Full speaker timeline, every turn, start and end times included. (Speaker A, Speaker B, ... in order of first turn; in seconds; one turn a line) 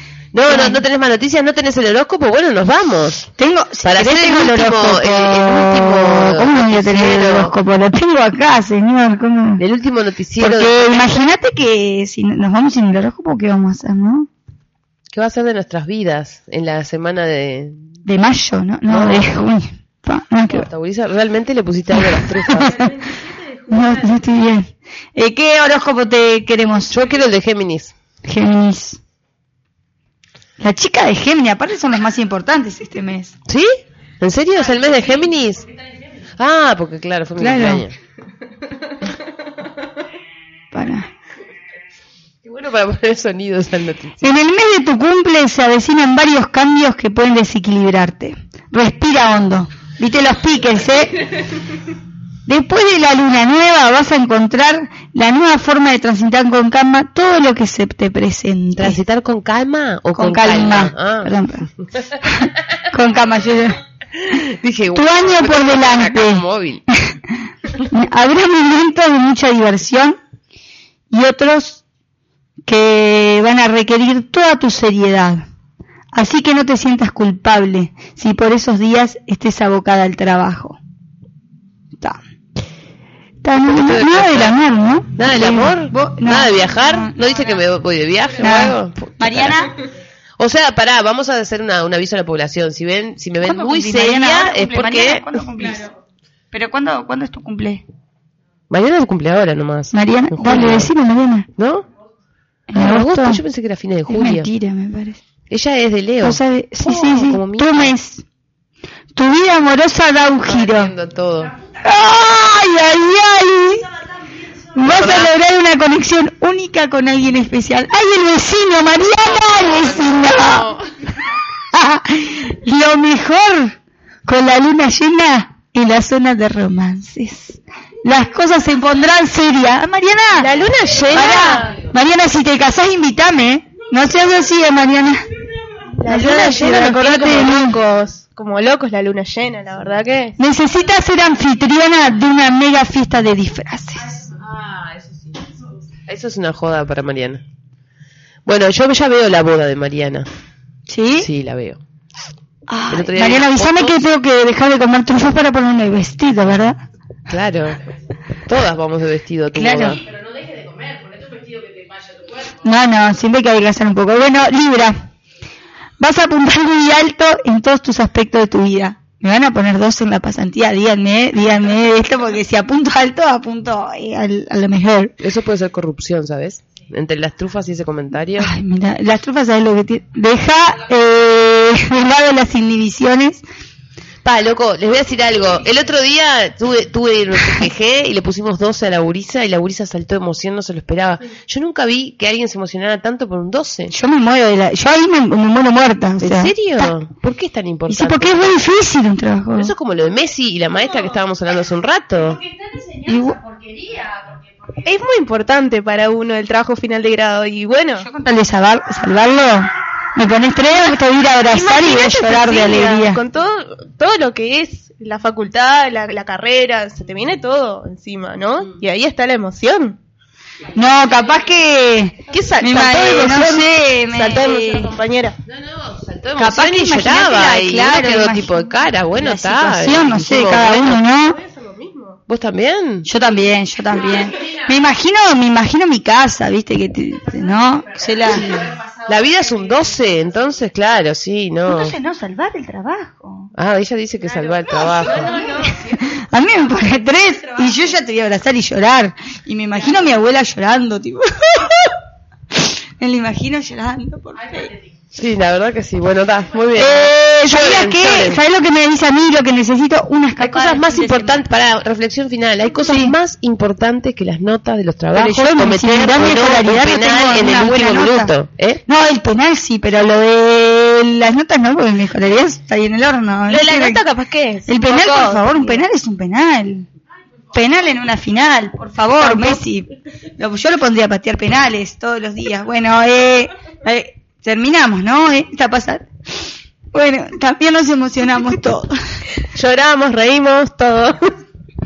Speaker A: 0.3-3.3
Speaker B: 0.5-0.8
Speaker B: 3.4-9.7
Speaker A: 3.8-7.5
Speaker A: 9.6-11.2
Speaker B: 10.4-14.3
Speaker A: 15.1-17.9
Speaker B: 18.1-20.7
Speaker A: 18.9-19.4
Speaker A: 20.5-22.9
Speaker B: 21.9-22.9
Speaker C: 22.8-24.1
Speaker B: 23.7-26.9
Speaker A: 26.9-27.9
Speaker B: 28.2-29.0
Speaker B: 30.6-33.4
Speaker A: 34.2-35.7
Speaker A: 36.4-38.0
Speaker B: 37.4-37.9
Speaker B: 40.7-41.1
Speaker A: 42.4-44.3
Speaker B: 44.2-51.3
Speaker B: 52.5-59.0
Speaker A: 58.8-61.3
Speaker B: 60.2-61.7
Speaker B: 62.2-63.8
Speaker A: 64.3-66.8
Speaker B: 64.9-67.1
Speaker B: 67.8-70.2
Speaker B: 71.1-71.8
Speaker B: 72.7-75.4
Speaker B: 76.1-80.8
Speaker B: 83.4-87.2
Speaker A: 83.6-84.6
Speaker A: 85.2-89.7
Speaker B: 88.4-89.7
Speaker A: 90.4-95.4
Speaker B: 93.4-95.9
Speaker B: 96.5-97.8
Speaker A: 98.7-100.9
Speaker B: 99.9-101.5
Speaker A: 101.6-101.9
Speaker B: 102.7-103.4
Speaker A: 102.7-104.5
Speaker B: 104.1-105.2
Speaker A: 105.5-108.0
Speaker B: 106.2-108.2
Speaker B: 109.2-110.9
Speaker A: 110.5-111.5
Speaker B: 111.8-113.9
Speaker B: 114.7-120.7
Speaker A: 114.8-115.3
Speaker A: 119.3-120.8
Speaker B: 121.7-130.5
Speaker C: 130.4-131.8
Speaker B: 131.1-135.2
Speaker C: 136.0-140.3
Speaker B: 136.1-137.8
Speaker B: 140.4-144.3
Speaker A: 144.3-145.4
Speaker A: 146.1-147.4
Speaker A: 148.5-150.3
Speaker B: 150.9-151.3
Speaker A: 151.2-151.8
Speaker B: 152.7-156.8
Speaker A: 152.9-154.1
Speaker A: 157.3-157.9
Speaker A: 158.5-160.0
Speaker B: 159.6-160.0
Speaker B: 162.4-165.1
Speaker B: 166.0-175.2
Speaker A: 175.2-178.5
Speaker B: 178.4-183.4
Speaker A: 184.2-193.9
Speaker B: 193.9-196.9
Speaker A: 196.2-198.6
Speaker B: 197.9-199.7
Speaker A: 199.6-202.4
Speaker B: 203.0-203.4
Speaker C: 204.8-208.1
Speaker B: 208.0-213.2
Speaker C: 211.5-220.0
Speaker B: 220.7-224.9
Speaker C: 222.3-225.3
Speaker A: 225.4-231.0
Speaker B: 226.4-231.4
Speaker C: 231.0-232.2
Speaker A: 232.3-233.1
Speaker B: 233.1-238.5
Speaker A: 238.3-241.9
Speaker B: 241.7-243.5
Speaker A: 243.6-245.4
Speaker C: 244.4-246.2
Speaker B: 245.0-251.9
Speaker B: 252.5-254.7
Speaker A: 255.1-258.4
Speaker B: 256.8-261.5
Speaker A: 260.4-268.8
Speaker B: 262.9-263.1
Speaker B: 265.1-268.3
Speaker B: 268.9-274.0
Speaker C: 273.5-275.8
Speaker B: 274.7-276.9
Speaker B: 277.5-288.9
Speaker C: 279.2-279.6
Speaker A: 289.6-291.1
Speaker C: 289.9-291.1